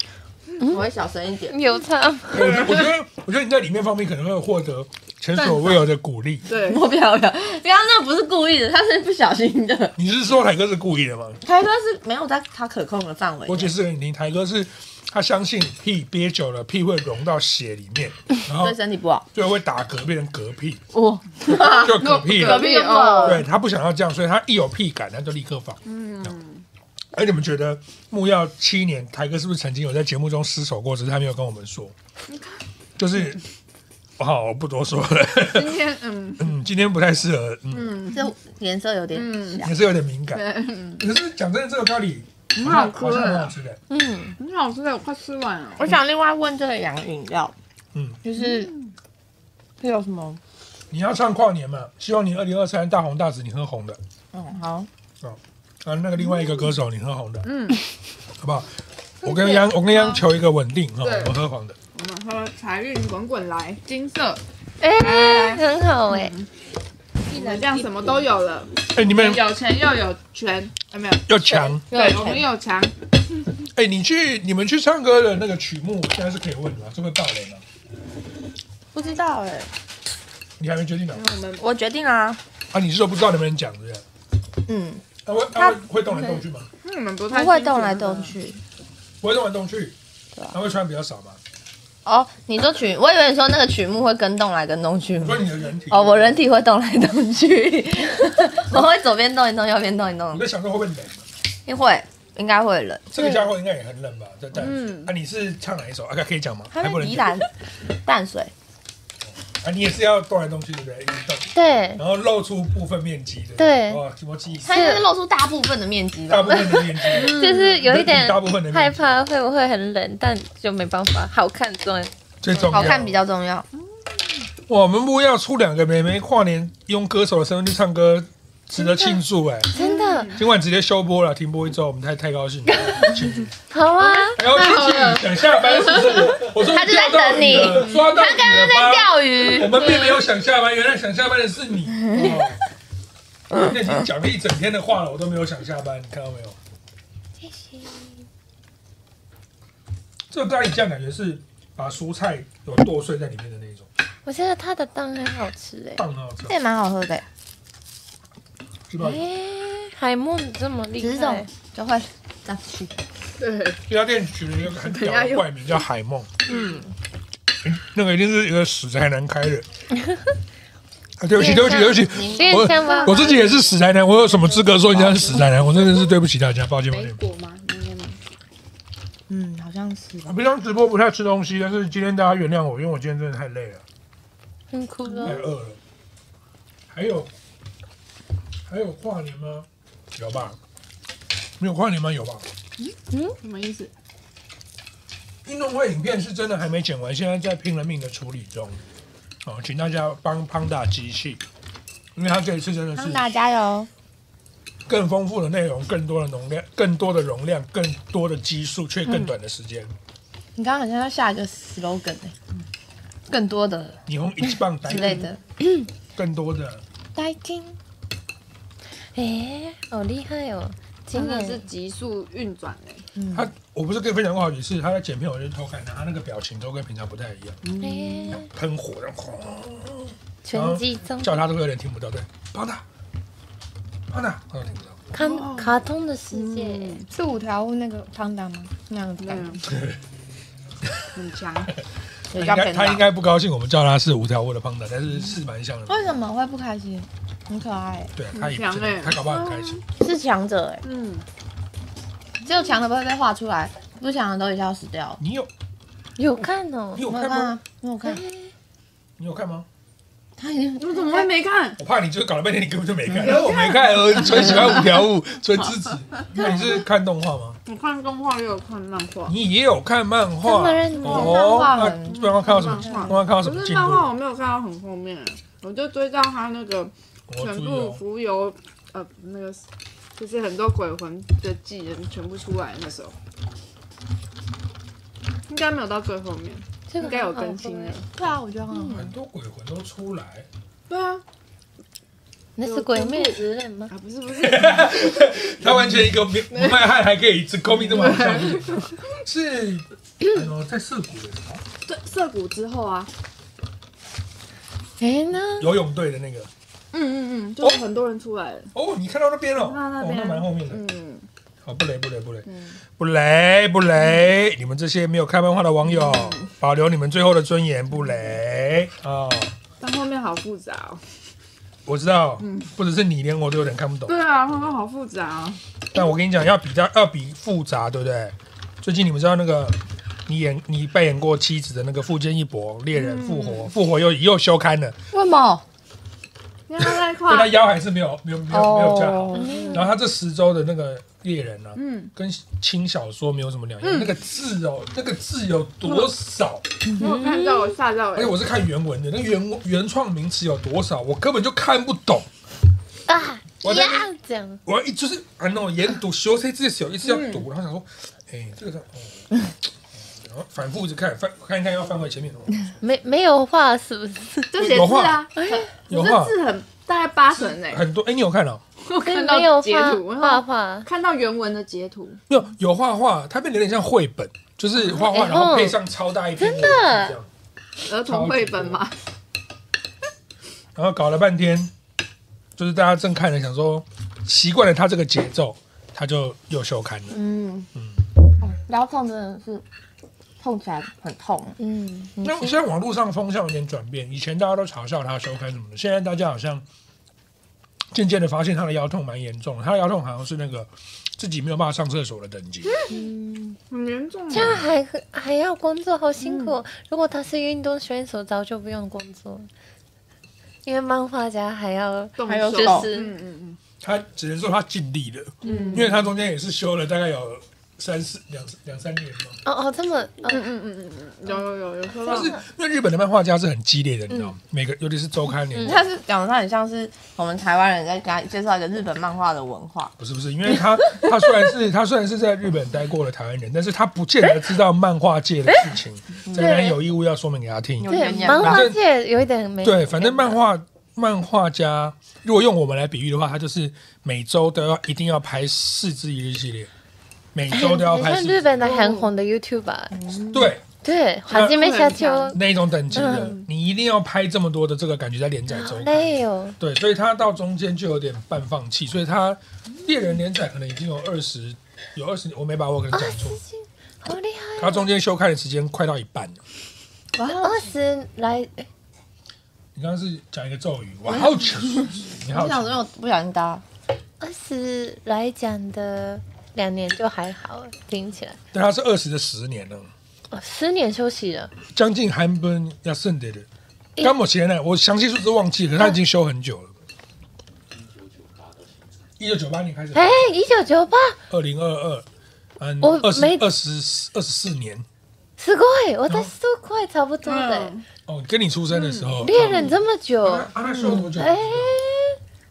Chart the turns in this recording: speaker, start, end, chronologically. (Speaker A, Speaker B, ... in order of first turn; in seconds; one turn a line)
Speaker A: 0.6-0.9
Speaker B: 0.6-1.6
Speaker A: 1.5-2.8
Speaker C: 2.3-6.5
Speaker D: 6.5-6.8
Speaker B: 6.5-10.0
Speaker C: 10.0-11.4
Speaker B: 11.4-13.8
Speaker C: 13.5-18.8
Speaker B: 18.5-19.3
Speaker C: 19.3-20.8
Speaker B: 20.9-23.4
Speaker C: 21.5-26.3
Speaker D: 21.5-23.5
Speaker D: 25.9-26.6
Speaker C: 27.1-31.9
Speaker D: 32.3-32.6
Speaker C: 33.0-33.4
Speaker C: 34.2-35.8
Speaker D: 35.4-36.5
Speaker C: 36.4-38.0
Speaker D: 37.7-38.3
Speaker B: 38.1-39.8
Speaker D: 39.1-39.7
Speaker C: 39.6-40.5
Speaker D: 40.3-41.0
Speaker C: 41.0-43.8
Speaker D: 42.5-43.5
Speaker B: 43.9-44.4
Speaker D: 44.4-46.0
Speaker B: 45.8-47.5
Speaker C: 47.9-48.2
Speaker B: 48.2-48.7
Speaker D: 48.4-48.9
Speaker B: 49.8-50.4
Speaker C: 50.9-54.0
Speaker B: 54.3-54.9
Speaker C: 55.2-57.5
Speaker D: 57.4-57.8
Speaker C: 58.4-61.8
Speaker D: 59.9-60.2
Speaker D: 61.0-61.4
Speaker D: 61.9-64.4
Speaker A: 64.8-66.3
Speaker D: 65.0-66.5
Speaker B: 67.3-68.3
Speaker D: 67.3-73.0
Speaker C: 68.9-69.5
Speaker C: 71.3-71.8
Speaker B: 71.5-72.5
Speaker C: 73.8-77.6
Speaker B: 78.9-79.7
Speaker C: 80.6-81.2
Speaker D: 81.1-81.7
Speaker B: 81.6-82.4
Speaker C: 82.7-84.0
Speaker B: 84.7-86.4
Speaker C: 85.2-86.7
Speaker D: 86.8-88.3
Speaker B: 87.3-88.6
Speaker C: 89.2-90.0
Speaker C: 90.5-91.4
Speaker B: 92.0-100.4
Speaker C: 95.2-96.5
Speaker C: 100.3-101.2
Speaker B: 101.7-103.1
Speaker C: 103.1-107.4
Speaker D: 104.5-105.1
Speaker B: 106.7-108.5
Speaker C: 109.6-115.0
Speaker A: 111.5-112.0
Speaker A: 113.6-114.0
Speaker B: 114.6-116.8
Speaker A: 114.7-115.0
Speaker C: 116.3-119.2
Speaker A: 117.0-122.1
Speaker D: 117.1-117.9
Speaker C: 122.4-123.2
Speaker B: 122.5-123.7
Speaker C: 124.7-129.7
Speaker A: 128.8-129.2
Speaker A: 129.7-130.4
Speaker D: 129.7-130.4
Speaker C: 130.3-133.5
Speaker A: 133.7-134.4
Speaker D: 134.1-136.3
Speaker C: 134.4-142.6
Speaker B: 136.5-140.0
Speaker B: 142.1-142.4
Speaker C: 143.5-146.6
Speaker A: 147.4-148.2
Speaker C: 150.3-153.9
Speaker A: 154.2-156.0
Speaker C: 156.0-156.6
Speaker B: 156.5-157.2
Speaker C: 158.9-159.2
Speaker A: 159.0-161.5
Speaker B: 161.0-162.9
Speaker D: 163.4-163.8
Speaker C: 163.9-166.3
Speaker D: 164.6-165.8
Speaker B: 166.5-166.9
Speaker C: 167.6-169.7
Speaker C: 171.2-177.2
Speaker A: 171.3-173.5
Speaker B: 172.0-173.1
Speaker D: 172.8-173.8
Speaker D: 174.3-174.6
Speaker B: 174.8-175.6
Speaker D: 176.9-178.2
Speaker B: 179.3-180.3
Speaker C: 180.2-183.8
Speaker A: 184.7-185.4
Speaker C: 185.2-185.8
Speaker C: 186.9-187.3
Speaker C: 188.7-190.6
Speaker C: 191.6-192.5
Speaker D: 192.8-193.9
Speaker A: 193.1-193.4
Speaker C: 195.4-198.8
Speaker C: 199.4-201.4
Speaker C: 202.2-203.3
Speaker B: 202.9-203.9
Speaker C: 204.9-209.9
Speaker B: 210.6-212.3
Speaker B: 213.3-214.0
Speaker C: 214.1-215.3
Speaker B: 214.8-215.4
Speaker C: 216.2-216.8
Speaker B: 217.2-217.8
Speaker A: 219.1-221.7
Speaker D: 221.1-223.1
Speaker B: 223.2-223.5
Speaker C: 223.3-227.6
Speaker D: 227.6-228.4
Speaker A: 227.8-228.5
Speaker C: 228.3-232.8
Speaker A: 230.4-231.3
Speaker C: 234.1-235.0
Speaker A: 235.1-237.0
Speaker D: 235.2-235.8
Speaker D: 236.3-237.1
Speaker B: 237.1-239.6
Speaker D: 239.2-239.6
Speaker C: 239.7-240.0
Speaker D: 241.1-241.7
Speaker B: 242.3-243.1
Speaker C: 242.3-246.2
Speaker B: 245.9-248.1
Speaker C: 248.1-249.8
Speaker D: 248.3-249.8
Speaker B: 250.0-250.8
Speaker D: 250.8-251.2
Speaker B: 252.4-255.2
Speaker C: 255.2-255.5
Speaker A: 256.2-257.1
Speaker C: 256.9-257.6
Speaker B: 257.0-258.2
Speaker A: 258.0-258.5
Speaker C: 259.2-259.7
Speaker B: 260.4-261.3
Speaker D: 260.8-261.8
Speaker C: 261.8-267.6
Speaker B: 263.1-263.4
Speaker D: 263.2-265.0
Speaker B: 264.3-264.8
Speaker D: 267.7-269.4
Speaker C: 269.3-274.1
Speaker A: 270.4-271.5
Speaker D: 270.9-279.6
Speaker B: 271.0-273.2
Speaker C: 277.3-278.0
Speaker D: 280.2-283.1
Speaker D: 285.5-288.1
Speaker A: 286.9-288.0
Speaker B: 288.1-289.1
Speaker C: 288.9-290.5
Speaker D: 290.9-291.2
Speaker A: 292.6-293.9
Speaker D: 292.6-296.9
Speaker C: 294.4-301.6
Speaker D: 297.8-298.9
Speaker D: 301.9-303.1
Speaker A: 305.0-305.7
Speaker C: 305.6-306.5
Speaker D: 306.9-308.7
Speaker C: 308.7-310.8
Speaker D: 309.6-311.3
Speaker C: 311.6-319.6
Speaker D: 312.5-312.8
Speaker D: 315.9-316.5
Speaker D: 319.8-321.0
Speaker C: 321.9-324.2
Speaker D: 322.4-322.7
Speaker D: 324.1-325.6
Speaker C: 325.9-335.0
Speaker D: 332.9-333.7
Speaker B: 335.1-335.6
Speaker D: 336.7-337.6
Speaker C: 336.8-346.6
Speaker B: 338.5-339.7
Speaker A: 339.3-339.9
Speaker D: 339.5-339.9
Speaker D: 341.8-342.1
Speaker D: 343.8-344.1
Speaker D: 345.8-346.1
Speaker B: 346.9-347.2
Speaker D: 347.0-348.4
Speaker A: 347.0-347.8
Speaker C: 348.2-352.3
Speaker A: 353.1-354.6
Speaker C: 353.6-354.1
Speaker C: 354.6-359.4
Speaker D: 357.0-357.5
Speaker C: 360.2-362.6
Speaker A: 362.8-364.7
Speaker D: 364.5-367.8
Speaker C: 364.6-365.3
Speaker A: 365.4-365.7
Speaker C: 365.9-366.4
Speaker C: 367.4-368.6
Speaker D: 368.8-372.2
Speaker A: 369.0-370.9
Speaker C: 372.3-377.3
Speaker A: 374.8-375.8
Speaker A: 376.4-377.2
Speaker D: 377.9-378.9
Speaker C: 378.1-378.8
Speaker C: 380.8-381.7
Speaker C: 382.6-387.2
Speaker B: 387.1-387.7
Speaker B: 388.4-389.6
Speaker B: 390.4-391.6
Speaker A: 391.6-392.6
Speaker C: 392.2-396.6
Speaker C: 397.9-402.8
Speaker A: 402.9-403.6
Speaker D: 403.7-404.7
Speaker A: 404.3-409.5
Speaker C: 404.4-404.7
Speaker D: 406.2-406.6
Speaker A: 410.6-413.2
Speaker D: 412.2-413.6
Speaker B: 412.3-412.9
Speaker C: 413.8-419.4
Speaker D: 415.4-416.0
Speaker A: 415.4-415.9
Speaker A: 419.4-420.5
Speaker D: 420.3-422.4
Speaker C: 422.1-425.8
Speaker A: 425.5-425.8
Speaker B: 425.6-429.9
Speaker C: 430.0-438.8
Speaker B: 436.3-436.5
Speaker A: 436.3-436.8
Speaker B: 437.8-438.7
Speaker A: 437.9-440.4
Speaker C: 439.6-446.7
Speaker C: 447.3-448.5
Speaker A: 447.5-450.0
Speaker D: 448.6-449.1
Speaker B: 449.9-450.5
Speaker C: 450.3-450.6
Speaker A: 450.8-452.4
Speaker D: 451.3-452.4
Speaker C: 452.3-463.4
Speaker A: 452.9-453.4
Speaker D: 452.9-453.5
Speaker A: 455.5-456.6
Speaker A: 462.9-464.9
Speaker C: 464.6-466.4
Speaker B: 467.2-467.6
Speaker A: 467.3-468.7
Speaker C: 469.8-472.8
Speaker B: 471.1-473.6
Speaker A: 474.2-478.4
Speaker C: 478.5-479.9
Speaker A: 480.3-481.5
Speaker C: 481.7-483.5
Speaker C: 484.0-486.7
Speaker C: 489.2-490.2
Speaker A: 489.9-491.2
Speaker C: 491.3-492.1
Speaker C: 492.6-494.9
Speaker A: 492.8-493.4
Speaker A: 495.4-497.8
Speaker D: 497.2-497.9
Speaker C: 498.1-501.8
Speaker D: 498.7-499.2
Speaker A: 499.2-502.2
Speaker D: 500.7-501.0